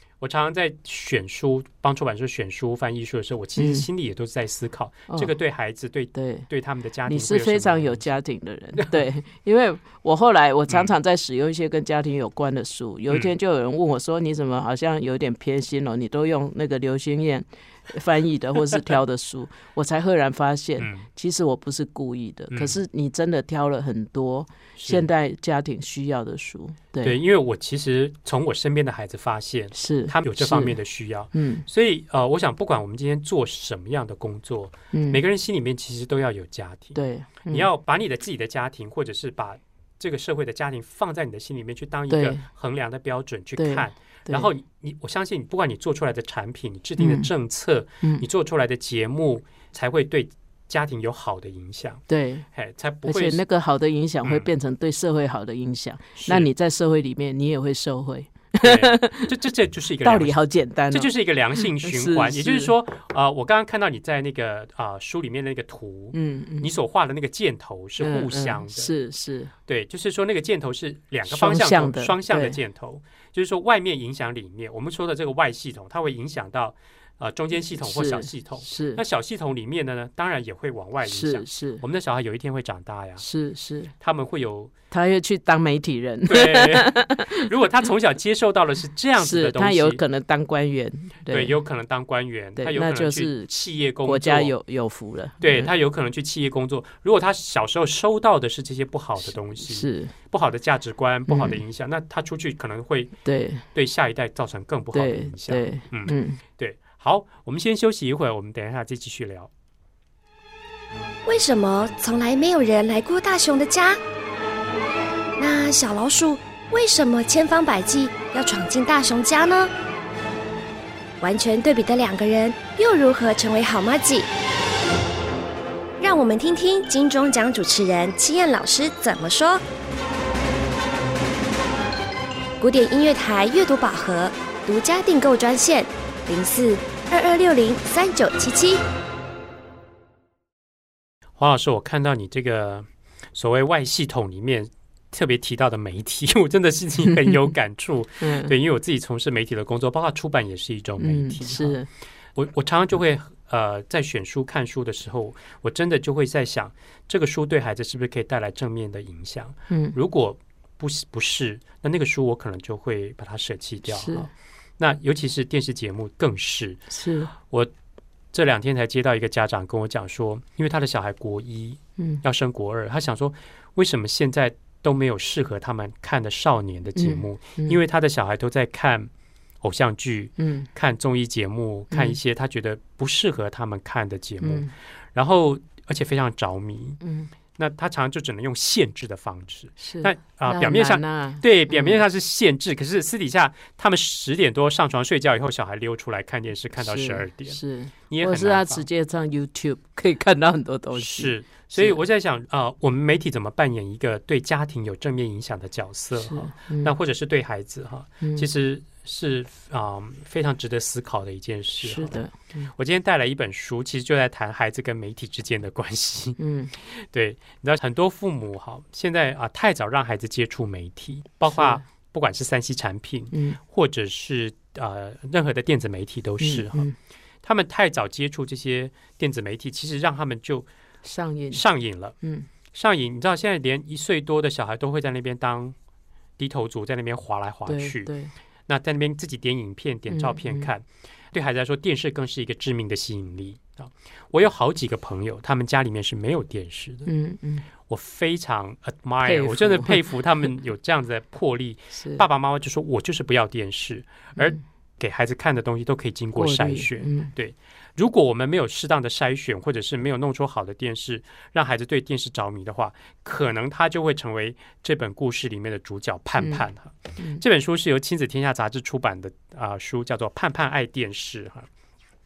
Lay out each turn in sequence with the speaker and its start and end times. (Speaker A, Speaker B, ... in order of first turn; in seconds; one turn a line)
Speaker A: 0.2-8.1
Speaker B: 3.6-3.9
Speaker B: 5.1-5.3
Speaker B: 6.1-6.5
Speaker B: 7.1-27.2
Speaker A: 20.8-21.1
Speaker A: 22.5-22.8
Speaker A: 24.8-25.1
Speaker A: 27.0-52.0
Speaker B: 29.7-30.8
Speaker B: 31.3-31.6
Speaker B: 34.9-35.2
Speaker B: 37.0-37.7
Speaker B: 42.1-42.4
Speaker B: 43.6-44.5
Speaker B: 47.0-47.3
Speaker B: 52.1-52.5
Speaker A: 52.5-53.4
Speaker B: 53.1-59.3
Speaker A: 56.2-56.5
Speaker A: 58.6-60.4
Speaker B: 60.0-62.7
Speaker A: 60.9-68.9
Speaker B: 66.1-66.7
Speaker B: 68.0-69.5
Speaker A: 69.7-83.2
Speaker B: 71.3-72.6
Speaker B: 77.8-79.0
Speaker B: 81.0-81.8
Speaker B: 83.2-83.9
Speaker A: 84.0-84.7
Speaker B: 84.9-87.5
Speaker A: 86.3-90.0
Speaker B: 89.2-91.6
Speaker A: 91.3-94.5
Speaker B: 92.6-93.5
Speaker B: 94.0-95.7
Speaker A: 95.4-103.1
Speaker B: 99.6-100.1
Speaker B: 101.3-101.6
Speaker B: 103.2-103.7
Speaker A: 103.7-109.5
Speaker B: 104.9-106.4
Speaker C: 111.3-114.0
Speaker C: 115.4-119.7
Speaker C: 121.2-124.3
Speaker C: 126.0-129.6
Speaker C: 132.6-138.8
Speaker A: 141.4-151.8
Speaker B: 148.2-148.5
Speaker B: 151.0-151.9
Speaker A: 152.3-166.8
Speaker B: 159.7-159.9
Speaker B: 163.9-164.3
Speaker B: 166.9-167.3
Speaker A: 167.3-167.7
Speaker A: 168.3-179.1
Speaker B: 177.0-177.8
Speaker A: 179.6-187.0
Speaker B: 180.4-180.7
Speaker B: 181.9-182.2
Speaker B: 184.4-184.7
Speaker B: 187.0-187.3
Speaker A: 187.6-197.6
Speaker B: 189.8-192.0
Speaker B: 196.8-202.0
Speaker A: 198.1-198.8
Speaker A: 200.9-212.2
Speaker B: 206.2-206.9
Speaker B: 208.2-208.5
Speaker B: 211.8-212.7
Speaker A: 212.8-226.9
Speaker B: 216.4-216.7
Speaker B: 221.5-221.8
Speaker B: 223.3-223.6
Speaker B: 226.4-226.9
Speaker A: 227.4-230.7
Speaker B: 231.0-231.6
Speaker A: 231.5-232.2
Speaker B: 232.2-232.5
Speaker A: 232.7-235.8
Speaker A: 236.4-238.1
Speaker B: 237.7-238.3
Speaker A: 238.7-247.1
Speaker B: 240.1-240.7
Speaker B: 247.1-247.7
Speaker A: 247.8-271.7
Speaker B: 249.2-250.0
Speaker B: 251.9-252.2
Speaker B: 256.4-257.3